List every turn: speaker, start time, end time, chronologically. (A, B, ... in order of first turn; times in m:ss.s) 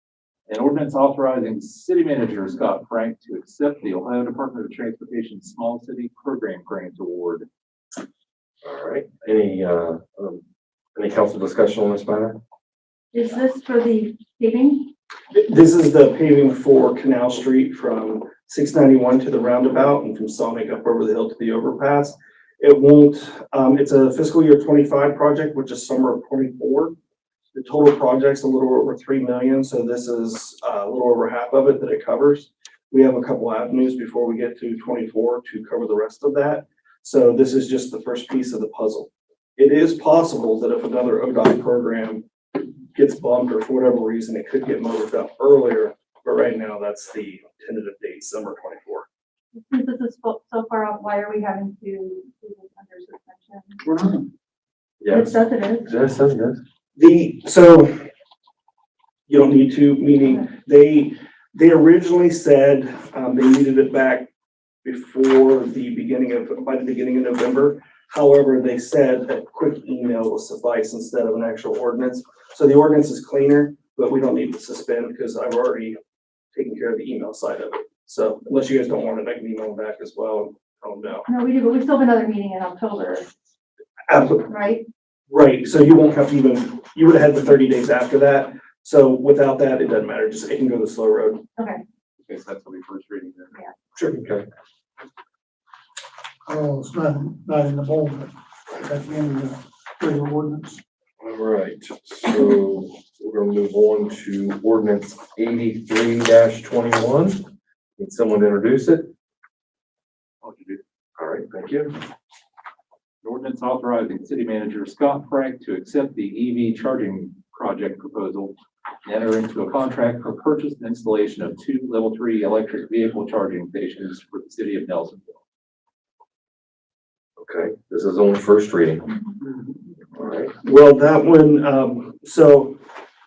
0:00.5-0:07.5 A
0:08.6-0:10.4 B
0:10.9-0:12.4 B
0:13.1-0:14.9 C
0:15.3-0:27.0 D
0:27.5-0:49.1 D
0:49.5-0:53.8 C
0:53.8-0:54.2 E
0:55.0-0:56.6 B
0:55.1-0:55.9 C
0:57.0-0:58.0 D
0:59.3-1:04.3 D
1:00.2-1:00.5 C
1:04.8-1:16.0 D
1:16.5-1:21.3 D
1:21.3-1:23.3 C
1:24.1-1:24.5 D
1:24.4-1:24.8 C
1:25.3-1:31.4 D
1:31.6-1:31.8 C
1:32.2-1:33.5 A
1:34.0-1:34.5 B
1:36.4-1:40.8 E
1:41.2-1:47.4 B
1:48.0-1:49.1 B
1:50.4-1:50.8 A
1:51.2-1:51.9 B
1:53.2-2:05.4 A
2:07.4-2:09.0 B
2:10.1-2:10.5 B
2:10.6-2:12.8 D